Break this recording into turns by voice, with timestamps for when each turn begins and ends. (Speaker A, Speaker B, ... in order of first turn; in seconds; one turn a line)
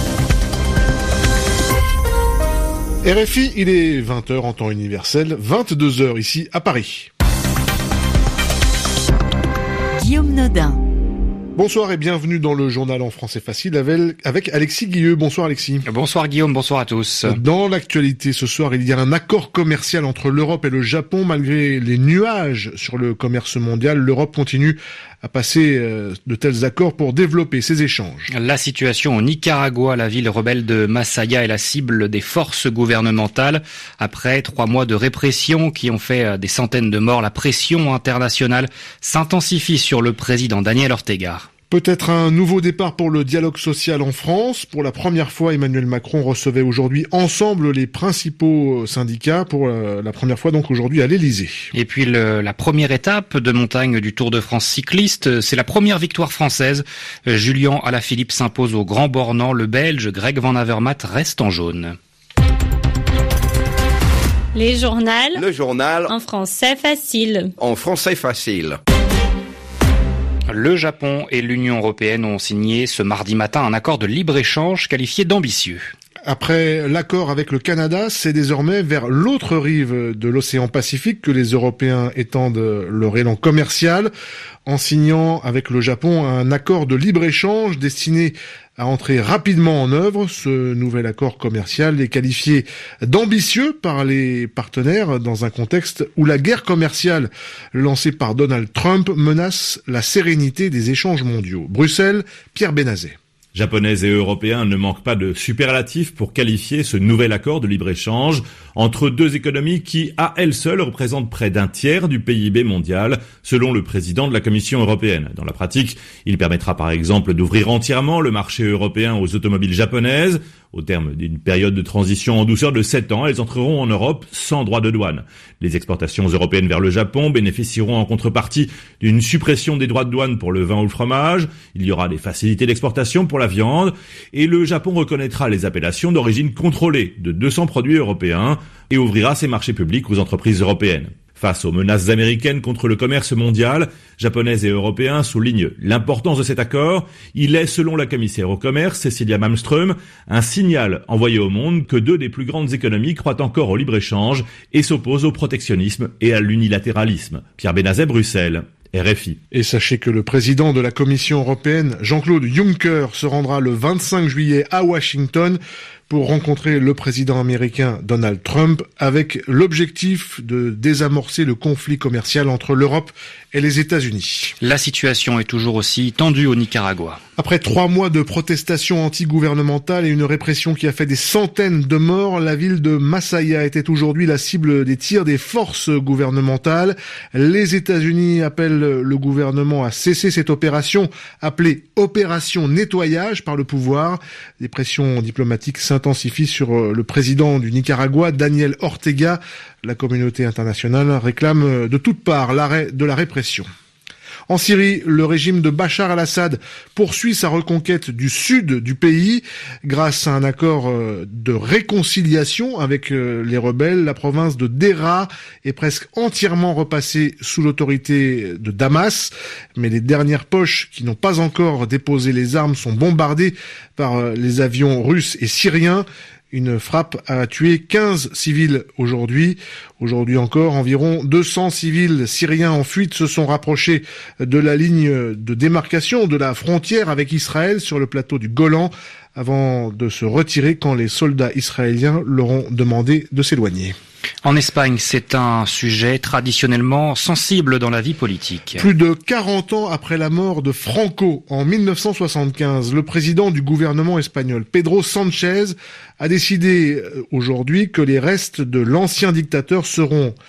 Speaker A: 3.0-7.1
Speaker A: 11.6-15.8
Speaker B: 15.8-17.4
Speaker A: 17.3-28.3
Speaker B: 28.3-41.5
Speaker A: 41.7-51.7
Speaker B: 51.7-62.0
Speaker C: 64.5-65.4
Speaker D: 65.3-66.1
Speaker C: 66.1-67.5
Speaker D: 67.6-68.8
Speaker B: 70.5-75.9
Speaker A: 76.2-84.1
Speaker A: 84.7-103.2
Speaker E: 103.5-159.4
Speaker A: 159.5-174.5
Speaker B: 174.6-177.2
Speaker A: 177.4-203.7
Speaker A: 204.5-243.9
Speaker B: 244.4-248.8
Speaker A: 248.7-260.4